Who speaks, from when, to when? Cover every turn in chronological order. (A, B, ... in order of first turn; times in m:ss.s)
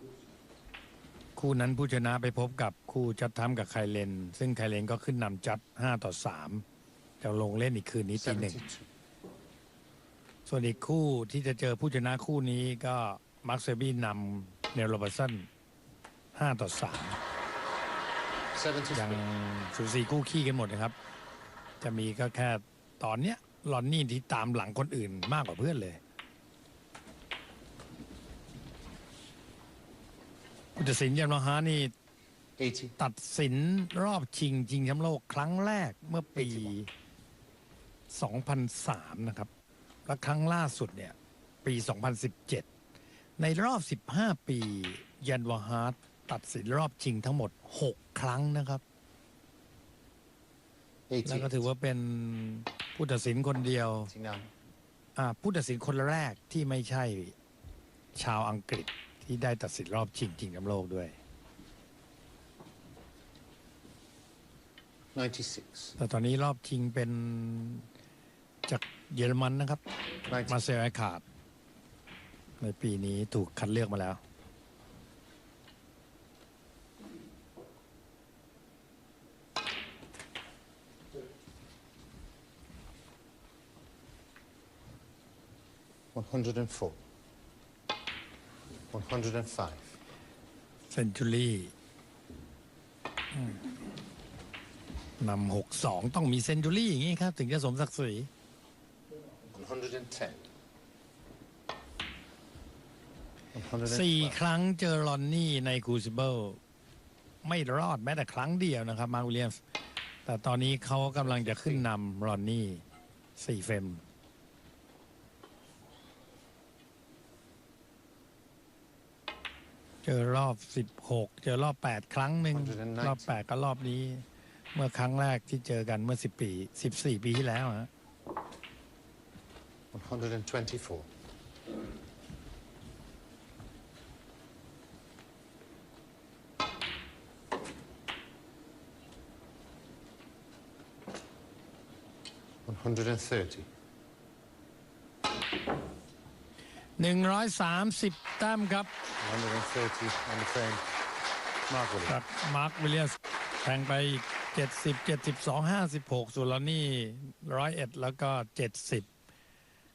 0:01.4-0:06.6 A
0:07.2-0:08.6 A
0:08.2-0:08.9 B
0:10.5-0:15.5 A
0:16.4-0:17.2 A
0:18.5-0:19.2 B
0:18.9-0:21.0 A
0:21.8-0:26.0 A
0:30.8-0:31.9 A
0:32.6-0:33.0 B
0:33.0-0:36.9 A
0:36.4-0:36.7 B
0:38.1-0:39.5 A
0:40.1-0:42.7 A
0:43.4-0:48.8 A
0:51.1-0:51.6 B
0:51.2-0:54.1 A
0:54.1-0:54.5 B
0:55.2-0:57.4 A
0:58.2-1:01.1 A
1:05.2-1:06.0 B
1:06.0-1:07.9 A
1:08.7-1:09.8 A
1:10.3-1:10.6 B
1:10.4-1:11.2 A
1:12.6-1:14.2 A
1:26.1-1:27.0 B
1:28.9-1:30.0 B
1:30.9-1:31.7 A
1:35.2-1:38.3 A
1:39.4-1:40.5 B
1:43.5-1:44.4 B
1:43.8-1:46.6 A
1:47.4-1:49.6 A
1:50.3-1:52.8 A
1:51.2-1:51.9 B
1:53.4-1:54.0 A
2:00.0-2:07.9 A
2:02.5-2:03.3 B
2:09.9-2:11.1 B
2:22.7-2:23.7 B
2:27.0-2:28.9 A
2:29.2-2:30.8 B
2:31.7-2:32.2 B
2:32.1-2:39.1 A